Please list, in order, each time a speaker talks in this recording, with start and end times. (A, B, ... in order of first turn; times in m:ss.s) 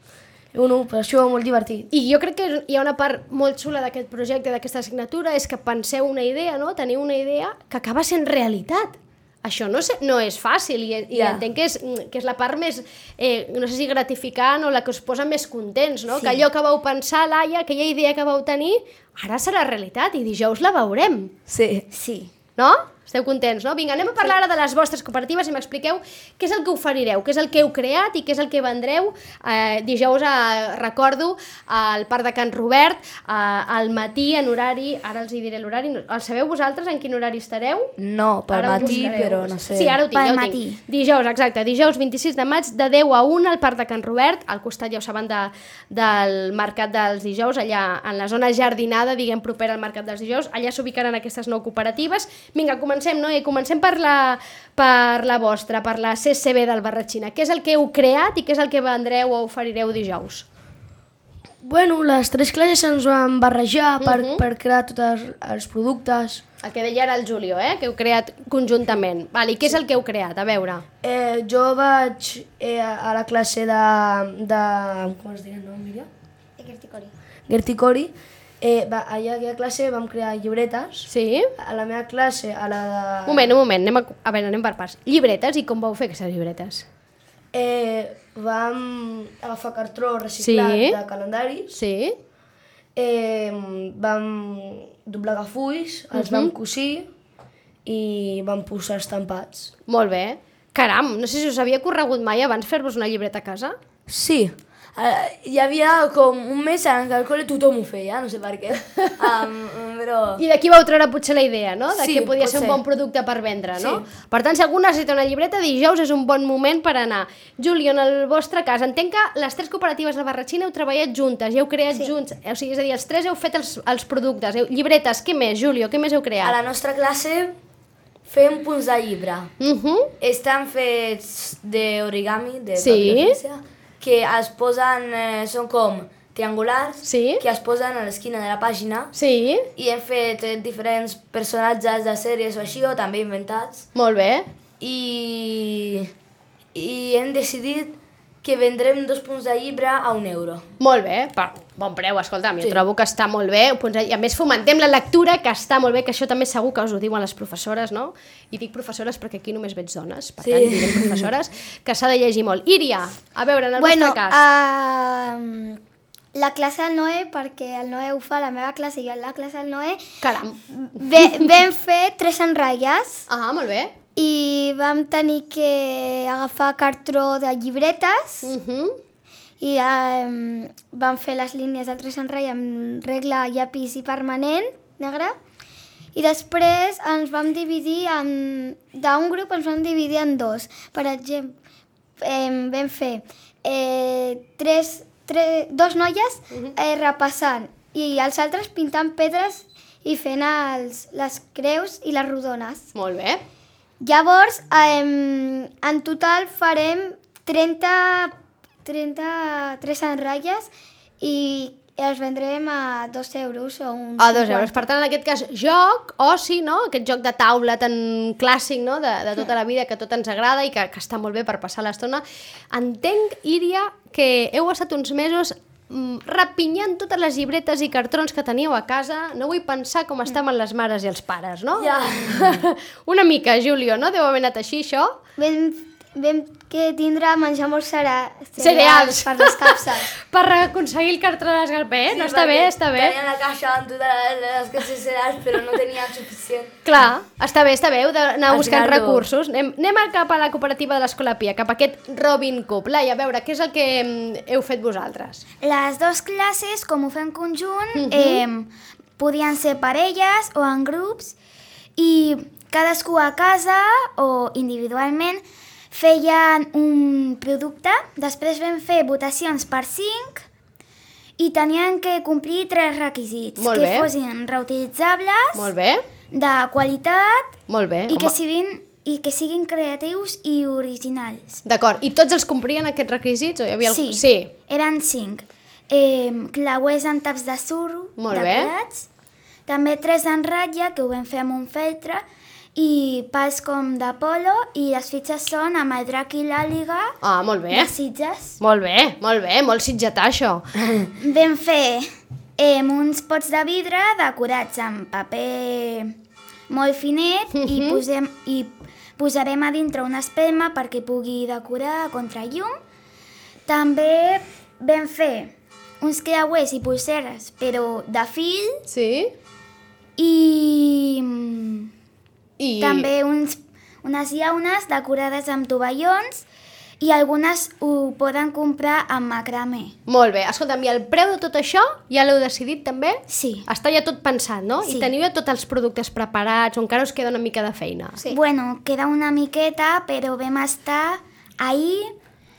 0:00.5-0:01.9 A
0:01.9-0:21.3 B
0:11.1-0:11.4 C
0:21.5-0:21.9 C
0:21.9-0:22.3 D
0:22.6-0:37.9 B
0:38.0-0:40.0 C
0:38.5-1:00.4 B
0:40.1-0:40.8 D
1:01.6-1:06.4 A
1:04.0-1:04.4 B
1:06.6-1:10.8 B
1:11.0-1:16.1 A
1:16.6-1:17.1 E
1:17.5-1:23.5 A
1:21.1-1:21.5 B
1:23.3-1:26.8 B
1:27.5-1:31.8 A
1:30.4-1:31.0 B
1:31.7-1:32.2 B
1:33.0-1:37.1 A
1:36.1-1:36.5 B
1:37.8-1:39.7 A
1:39.9-1:43.7 B
1:44.1-1:50.4 C
1:50.4-2:06.6 B
1:51.9-1:52.8 C
1:53.8-1:54.0 C
2:06.4-2:07.5 C
2:08.2-2:09.5 C
2:09.6-2:10.1 B
2:10.2-2:19.1 C
2:12.8-2:13.4 B
2:17.0-2:17.4 B
2:19.1-2:19.7 B
2:19.8-2:23.8 C
2:23.9-2:24.4 B
2:24.8-2:26.1 C
2:26.7-2:30.6 C
2:30.8-2:44.4 B
2:40.4-2:41.3 C
2:43.8-2:44.3 D
2:44.4-2:45.7 E
2:46.3-2:50.0 E
2:50.2-2:50.6 B
2:51.0-2:53.2 E
2:51.1-2:51.5 B
2:53.3-2:53.9 B
2:54.2-2:58.4 E
2:58.4-2:59.0 B
2:59.6-3:05.3 E
3:06.2-3:11.5 E
3:12.2-3:22.9 E
3:22.9-3:23.4 B
3:24.0-3:28.3 E
3:28.8-3:30.7 E
3:31.2-3:34.8 E
3:34.2-3:55.2 B
3:51.8-3:52.6 C
3:55.4-4:00.1 E
3:58.6-4:03.2 B
4:02.1-4:06.7 C
4:06.8-4:15.4 B
4:08.5-4:09.2 C
4:15.6-4:21.3 D
4:17.9-4:18.4 B
4:22.0-4:30.4 D
4:31.4-4:35.7 D
4:33.6-4:34.1 B
4:35.5-4:36.0 B
4:36.3-4:37.5 D
4:37.7-4:38.3 B
4:38.1-4:41.6 D
4:41.6-4:44.5 B
4:43.8-4:49.1 D
4:48.2-4:48.7 B
4:49.7-4:52.2 D
4:52.8-4:57.1 D
4:57.2-4:57.9 B
4:57.7-4:58.5 D
4:58.6-5:00.6 B
5:01.2-5:06.1 D
5:06.7-5:12.7 D
5:07.5-5:08.0 B
5:13.7-5:18.8 D
5:18.9-5:19.3 B
5:20.2-5:21.9 D
5:22.6-5:23.1 B
5:22.8-5:26.4 D
5:27.0-5:29.9 D
5:30.1-5:38.2 B
5:33.3-5:33.6 D
5:34.8-5:35.1 D
5:38.2-5:42.1 D